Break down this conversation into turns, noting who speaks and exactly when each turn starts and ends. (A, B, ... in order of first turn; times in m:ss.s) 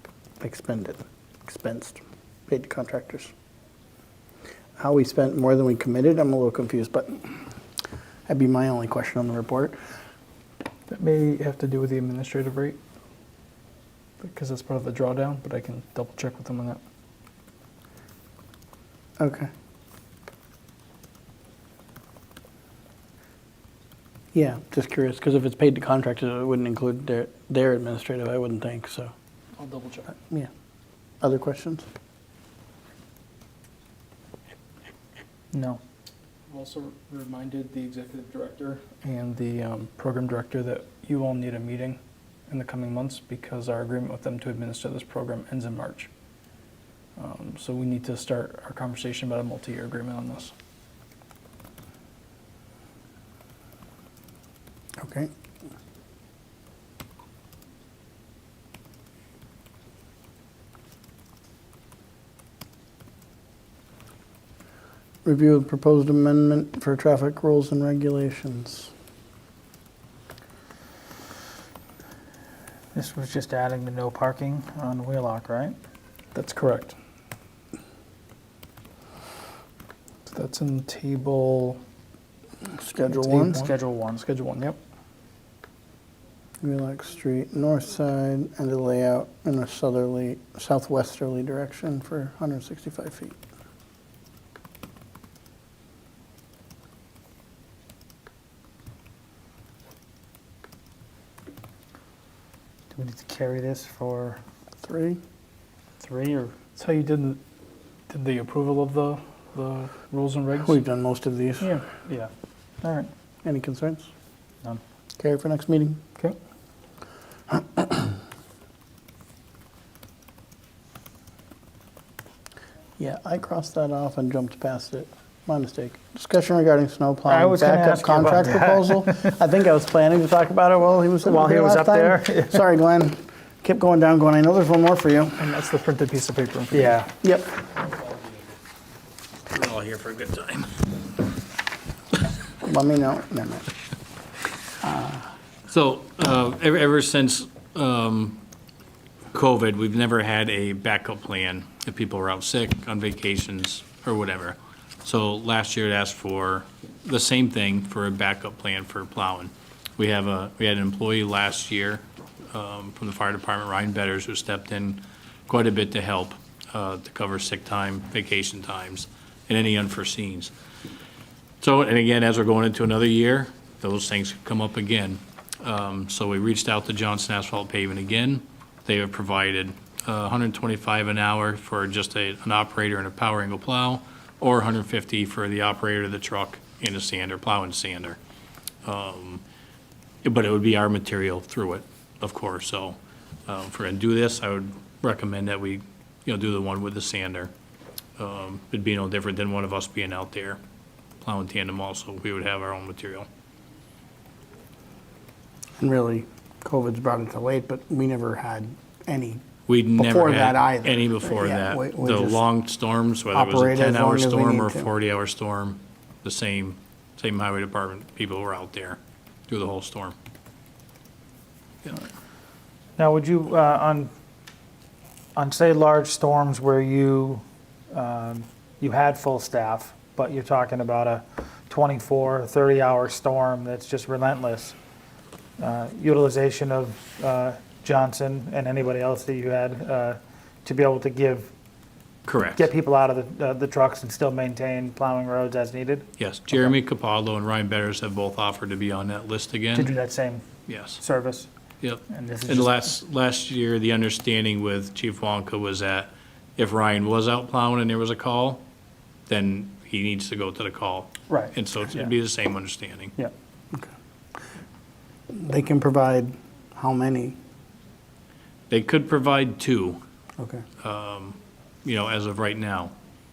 0:00.4-0:03.3 A
0:04.8-0:07.5 A
0:08.3-0:09.8 A
0:10.9-0:12.8 B
0:14.2-0:16.8 B
0:19.2-0:19.5 A
0:24.3-0:29.1 A
0:29.6-0:30.1 B
0:30.1-0:30.5 A
0:31.2-0:31.9 A
0:35.5-0:35.8 C
0:36.5-0:46.1 B
0:47.2-0:50.5 B
0:55.0-0:55.3 A
1:05.2-1:08.9 A
1:12.9-1:15.8 C
1:16.3-1:17.0 B
1:20.3-1:21.8 B
1:22.7-1:23.6 A
1:23.1-1:24.8 B
1:23.6-1:24.2 C
1:26.6-1:33.4 A
1:42.9-1:44.4 C
1:44.8-1:45.2 A
1:46.0-1:46.5 C
1:46.8-1:47.4 B
1:48.1-1:50.8 B
1:50.6-1:51.8 A
1:52.1-1:52.3 C
1:52.8-1:53.1 C
1:53.4-1:54.1 A
1:55.2-1:56.0 A
1:57.5-1:58.0 A
2:03.0-2:15.4 A
2:07.3-2:09.3 C
2:11.2-2:12.6 C
2:15.4-2:16.8 B
2:16.7-2:17.1 C
2:17.2-2:17.5 A
2:19.5-2:20.9 D
2:22.6-2:23.7 A
2:24.8-2:25.3 A
2:25.7-2:28.4 D
2:29.3-2:50.5 D
2:51.6-3:08.2 D
3:08.8-3:09.4 D
3:10.2-3:17.5 D
3:18.2-3:20.6 D
3:21.2-3:23.3 D
3:25.8-3:29.4 A
3:29.7-3:40.1 D
3:30.0-3:32.4 A
3:33.3-3:34.9 A
3:43.0-3:44.1 C
3:45.4-3:54.8 C
3:55.6-4:01.5 C
4:02.3-4:02.7 D
4:02.5-4:06.1 C
4:06.2-4:09.9 D
4:09.8-4:10.4 C
4:10.7-4:11.0 D
4:11.0-4:11.5 C
4:11.8-4:18.6 D
4:12.1-4:12.8 C
4:19.3-4:23.1 D
4:21.3-4:22.1 C
4:25.3-4:27.4 A
4:28.7-4:30.0 D
4:30.4-4:30.6 A
4:30.8-4:32.9 D